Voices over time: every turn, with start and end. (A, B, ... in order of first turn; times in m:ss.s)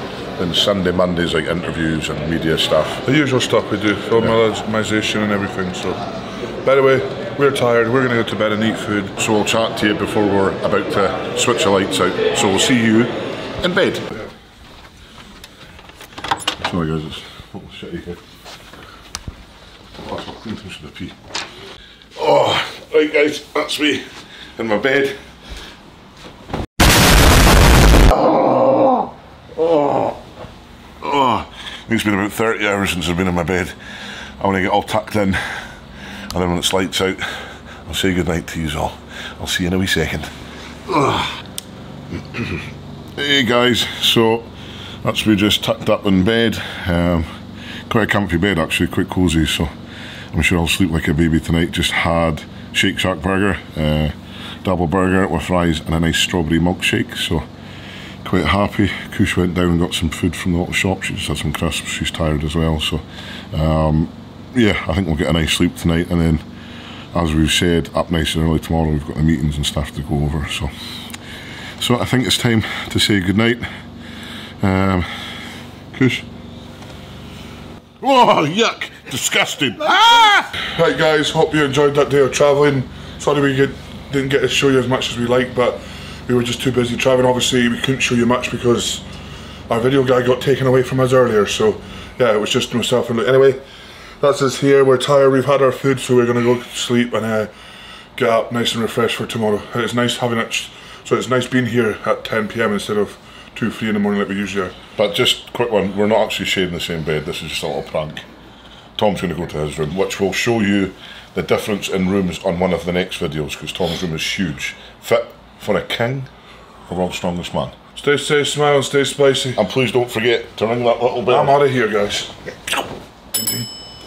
0:00.4-0:03.0 A
0:03.0-0:06.0 B
0:06.6-0:09.1 B
0:09.2-0:14.1 A
0:16.6-0:18.2 A
0:20.0-0:21.2 A
0:22.2-0:25.2 A
0:28.5-0:29.0 A
0:29.6-0:30.2 A
0:31.0-0:33.7 A
0:34.4-0:35.6 A
0:36.3-0:40.3 A
0:40.8-0:41.3 A
0:42.1-0:42.6 A
0:43.2-0:44.5 A
0:45.0-0:47.3 A
0:47.9-0:49.7 A
0:50.3-0:57.4 A
0:58.2-1:06.4 A
1:07.1-1:10.7 A
1:11.8-1:13.7 A
1:14.6-1:15.3 A
1:15.9-1:16.2 A
1:18.0-1:20.5 A
1:20.7-1:29.0 B
1:29.7-1:33.6 B
1:34.2-1:37.5 B
1:38.2-1:44.8 B
1:45.0-1:48.2 A
1:49.0-1:56.3 A
1:56.9-1:57.7 A
1:58.0-1:59.6 B
1:59.6-2:01.5 A
2:01.3-2:02.3 B
2:03.4-2:03.6 B